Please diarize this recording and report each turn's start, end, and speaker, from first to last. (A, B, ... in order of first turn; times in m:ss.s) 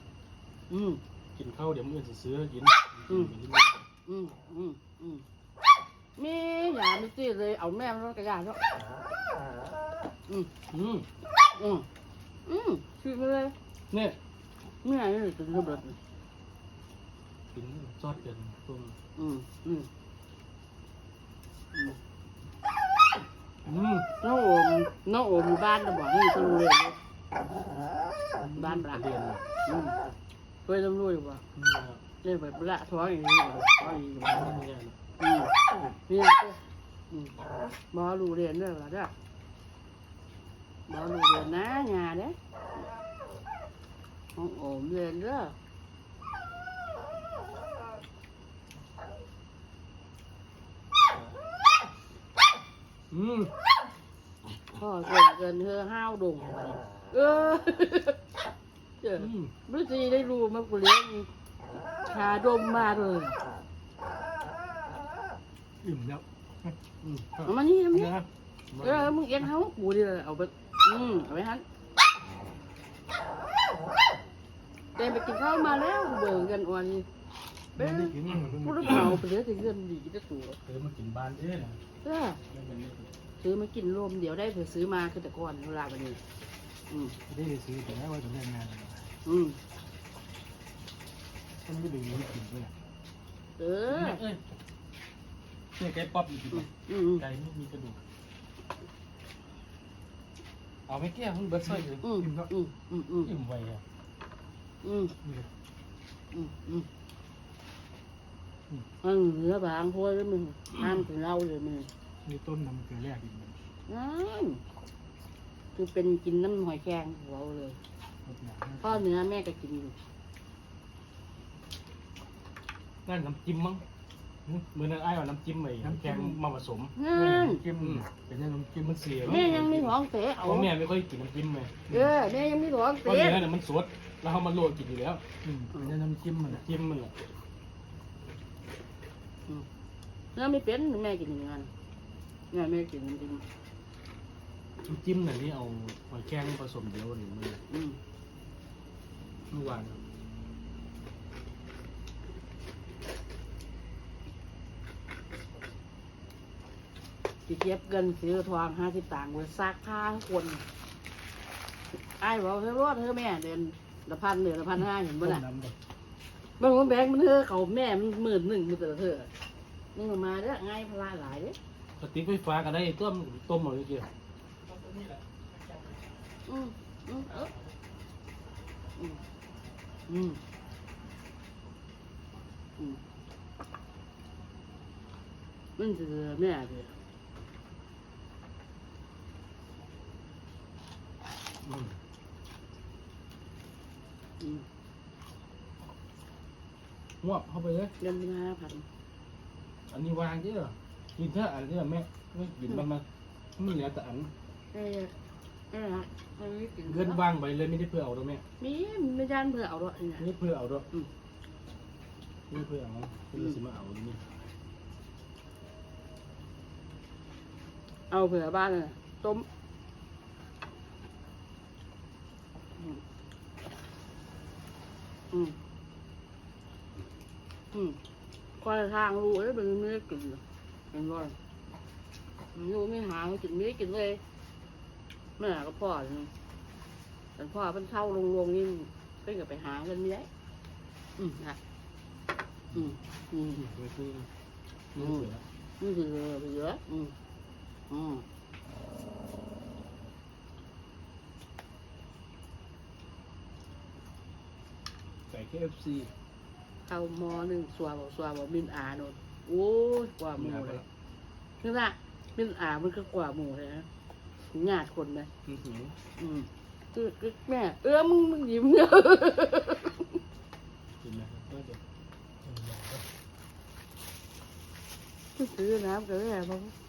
0:00.7-0:01.0 A
0:01.4-0:03.8 B
0:03.1-0:03.3 A
0:04.0-0:05.2 A
0:06.2-0:08.6 A
0:10.3-0:10.5 A
0:10.7-0:11.1 B
0:11.5-0:11.9 A
0:12.4-0:13.5 A
0:13.9-0:14.2 B
0:14.8-0:16.0 A
0:17.5-0:19.0 B
0:19.2-0:19.9 A
0:21.7-0:22.0 A
0:23.6-0:24.1 B
0:24.2-0:27.0 A
0:28.4-0:29.4 B
0:28.5-0:29.0 A
0:29.6-0:30.0 A
0:30.6-0:31.4 A
0:31.5-0:32.0 B
0:32.2-0:34.5 A
0:34.2-0:35.0 B
0:35.2-0:35.5 A
0:36.0-0:37.4 A
0:37.9-0:39.1 A
0:40.9-0:42.4 A
0:44.3-0:45.6 A
0:53.1-0:53.5 B
0:54.7-0:58.2 A
0:59.0-1:01.3 A
0:59.2-0:59.5 B
1:02.1-1:03.4 A
1:05.8-1:06.7 C
1:07.0-1:07.6 B
1:07.4-1:08.2 A
1:07.9-1:08.2 C
1:08.7-1:09.1 B
1:08.8-1:11.6 A
1:15.0-1:17.0 A
1:17.8-1:19.2 C
1:17.8-1:20.6 A
1:18.2-1:19.2 B
1:20.6-1:21.8 B
1:22.0-1:22.4 A
1:22.5-1:23.1 B
1:23.4-1:26.2 A
1:26.9-1:27.2 A
1:27.3-1:29.1 C
1:29.2-1:29.6 A
1:31.6-1:32.7 C
1:33.6-1:34.2 A
1:33.9-1:34.4 B
1:35.8-1:38.0 B
1:36.5-1:37.2 A
1:40.9-1:42.1 B
1:42.0-1:43.3 A
1:42.1-1:42.5 C
1:43.2-1:43.8 B
1:44.8-1:45.1 A
1:45.2-1:45.5 C
1:46.3-1:46.9 A
1:49.0-1:51.9 A
1:52.2-1:53.6 C
1:53.9-1:54.6 A
1:55.7-1:57.8 A
1:58.2-1:59.0 C
1:58.8-2:00.0 A
2:03.0-2:03.8 B
2:04.7-2:06.9 B
2:05.8-2:06.4 C
2:07.0-2:07.6 A
2:07.1-2:09.6 C
2:07.8-2:08.1 B
2:08.8-2:11.8 B
2:09.2-2:10.7 A
2:11.9-2:13.4 A
2:13.0-2:15.2 B
2:15.4-2:16.6 C
2:16.5-2:17.1 B
2:20.3-2:21.7 A
2:22.5-2:23.4 A
2:24.8-2:27.6 B
2:27.7-2:28.0 A
2:29.5-2:30.0 B
2:37.5-2:40.6 A
2:42.2-2:45.4 A
2:45.2-2:45.7 B
2:46.6-2:49.3 A
2:49.9-2:51.6 A
2:52.0-2:54.1 B
2:54.7-2:56.0 B
2:56.4-2:57.5 A
2:57.3-2:57.6 B
3:00.1-3:00.4 A
3:05.8-3:07.0 A
3:11.6-3:12.0 B
3:14.4-3:14.6 A
3:17.2-3:17.9 B
3:18.0-3:18.8 A
3:19.9-3:23.0 B
3:23.6-3:24.3 B
3:24.7-3:25.1 A
3:25.7-3:27.2 A
3:26.8-3:28.4 B
3:28.6-3:30.2 A
3:30.2-3:30.9 B
3:32.5-3:34.3 B
3:38.1-3:39.4 A
3:42.8-3:43.0 A
3:45.3-3:45.6 A
3:47.7-3:48.0 A
3:48.6-3:51.4 A
3:52.5-3:54.2 A
3:55.4-3:56.3 A
3:57.4-4:00.3 A
4:01.2-4:01.6 A
4:02.7-4:03.6 A
4:03.5-4:04.3 B
4:04.9-4:05.4 B
4:05.0-4:05.3 A
4:05.8-4:07.1 A
4:07.9-4:08.2 A
4:15.3-4:16.1 B
4:16.8-4:20.8 A
4:20.3-4:20.8 B
4:21.6-4:23.9 A
4:24.5-4:25.3 A
4:25.4-4:25.9 B
4:26.2-4:30.2 A
4:31.0-4:31.8 B
4:32.4-4:33.0 B
4:35.4-4:36.7 A